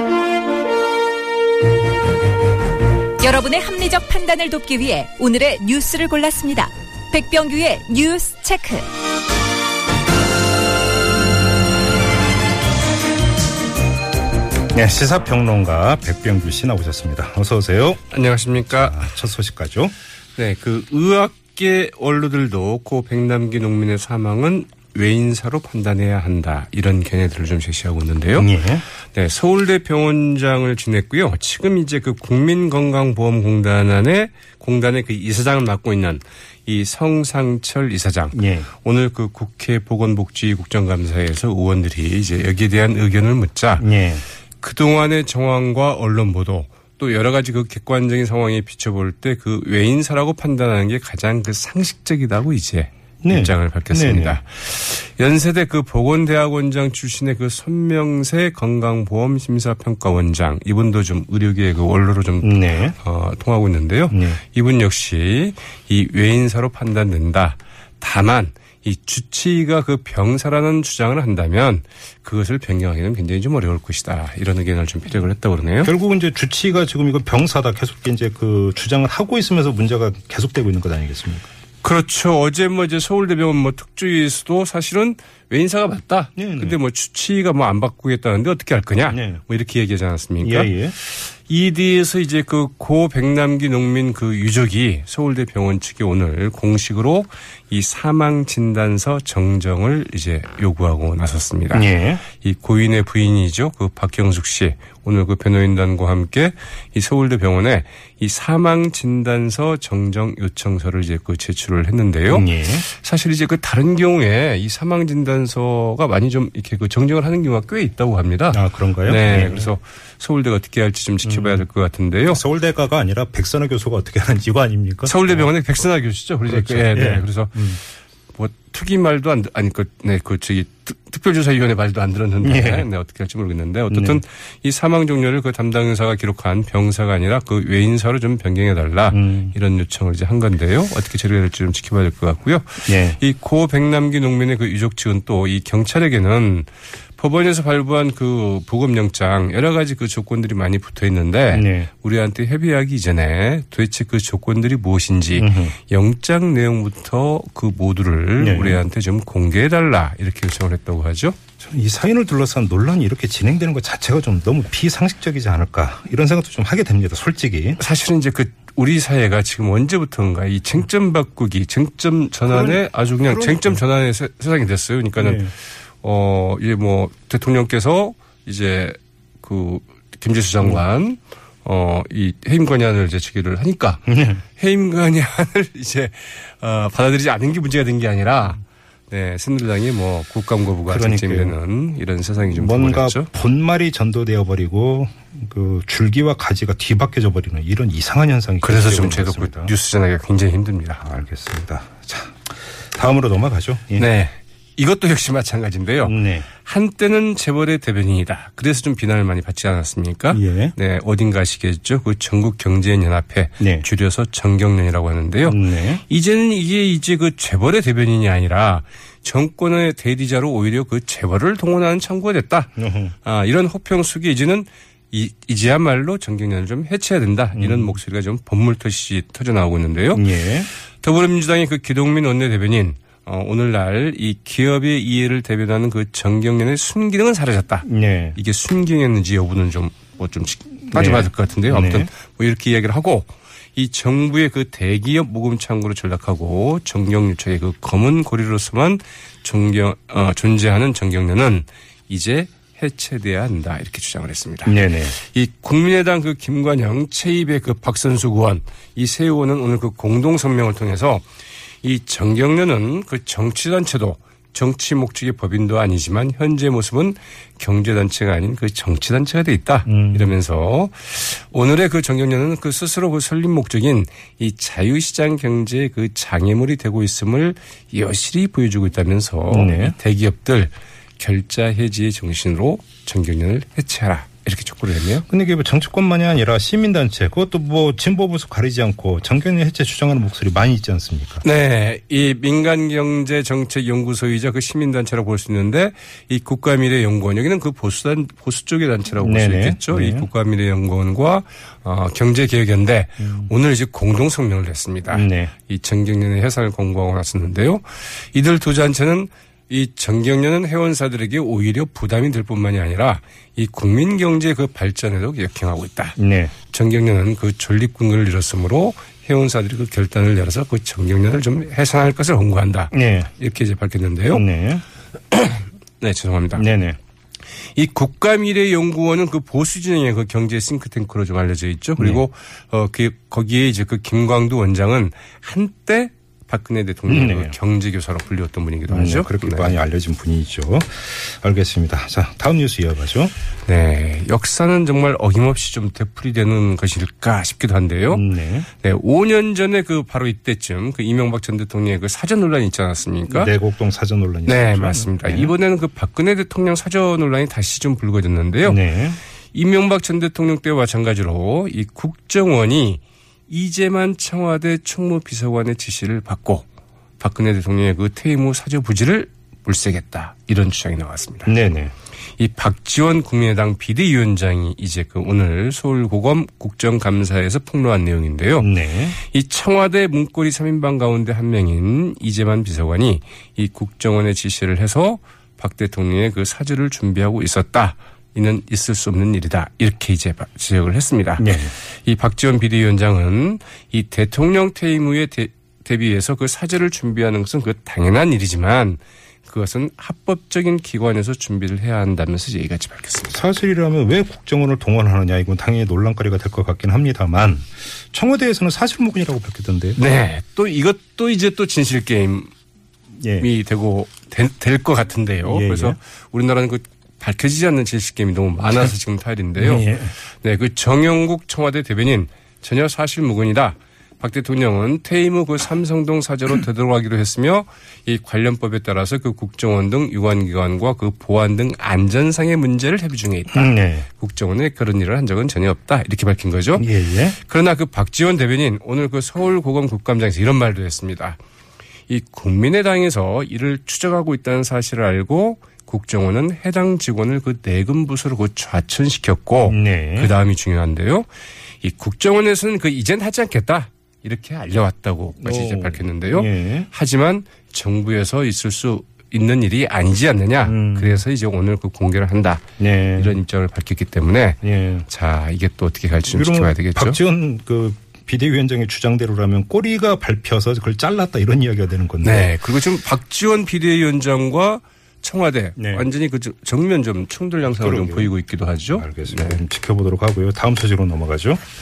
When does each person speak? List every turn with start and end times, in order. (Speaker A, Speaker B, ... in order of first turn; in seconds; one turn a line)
Speaker A: 3.2-8.8
Speaker B: 14.7-18.0
Speaker C: 18.1-19.1
Speaker B: 18.7-19.9
Speaker C: 20.4-43.9
Speaker B: 28.3-28.8
Speaker B: 38.3-38.7
Speaker B: 43.8-44.2
Speaker C: 44.6-75.9
Speaker B: 53.2-54.4
Speaker B: 62.4-63.0
Speaker B: 64.1-64.4
Speaker B: 75.8-81.5
Speaker C: 81.8-122.4
Speaker B: 86.4-86.8
Speaker B: 89.1-89.4
Speaker B: 90.4-91.0
Speaker B: 101.7-102.2
Speaker B: 112.3-112.8
Speaker B: 118.5-119.7
Speaker B: 121.2-121.7
Speaker B: 122.3-125.5
Speaker C: 125.0-161.4
Speaker B: 126.5-127.8
Speaker B: 132.4-132.9
Speaker B: 133.9-134.2
Speaker B: 139.1-139.5
Speaker B: 142.8-143.2
Speaker B: 151.5-151.9
Speaker B: 155.3-155.7
Speaker B: 158.4-158.8
Speaker B: 161.6-167.8
Speaker C: 167.8-193.3
Speaker B: 172.5-173.8
Speaker B: 175.2-175.5
Speaker B: 184.1-184.4
Speaker B: 190.9-191.5
Speaker B: 192.5-199.7
Speaker C: 198.6-201.0
Speaker B: 201.0-204.1
Speaker C: 203.9-261.2
Speaker B: 206.0-206.5
Speaker B: 210.3-210.7
Speaker B: 213.6-213.8
Speaker B: 215.4-216.0
Speaker B: 222.8-223.1
Speaker B: 227.5-228.0
Speaker B: 230.1-230.7
Speaker B: 237.8-238.4
Speaker B: 240.9-242.1
Speaker B: 254.6-255.1
Speaker C: 261.8-285.2
Speaker B: 269.9-270.3
Speaker B: 279.5-279.9
Speaker B: 285.3-291.4
Speaker C: 291.4-324.5
Speaker B: 299.2-300.3
Speaker B: 303.2-303.5
Speaker B: 305.1-305.5
Speaker B: 316.2-316.5
Speaker B: 322.9-323.3
Speaker B: 324.3-324.8
Speaker C: 325.3-326.6
Speaker B: 326.6-327.0
Speaker C: 327.7-339.8
Speaker B: 332.0-332.2
Speaker B: 337.1-337.5
Speaker B: 338.9-343.3
Speaker C: 343.6-353.5
Speaker B: 348.1-348.7
Speaker B: 353.3-355.5
Speaker C: 354.4-358.8
Speaker B: 358.6-359.2
Speaker C: 359.5-366.7
Speaker C: 367.2-371.6
Speaker B: 371.4-371.9
Speaker C: 372.4-403.4
Speaker B: 378.6-379.2
Speaker B: 391.4-391.7
Speaker B: 403.3-410.0
Speaker C: 409.9-412.5
Speaker B: 413.2-413.5
Speaker C: 413.4-441.4
Speaker B: 415.4-416.0
Speaker B: 419.6-420.1
Speaker B: 433.5-434.0
Speaker B: 436.8-437.4
Speaker C: 442.1-451.3
Speaker B: 449.6-450.3
Speaker C: 451.8-467.2
Speaker B: 455.4-456.9
Speaker B: 460.6-461.2
Speaker B: 462.8-463.4
Speaker B: 464.6-465.1
Speaker B: 466.3-472.6
Speaker C: 472.2-479.6
Speaker B: 475.8-476.1
Speaker B: 477.6-478.3
Speaker B: 478.9-481.6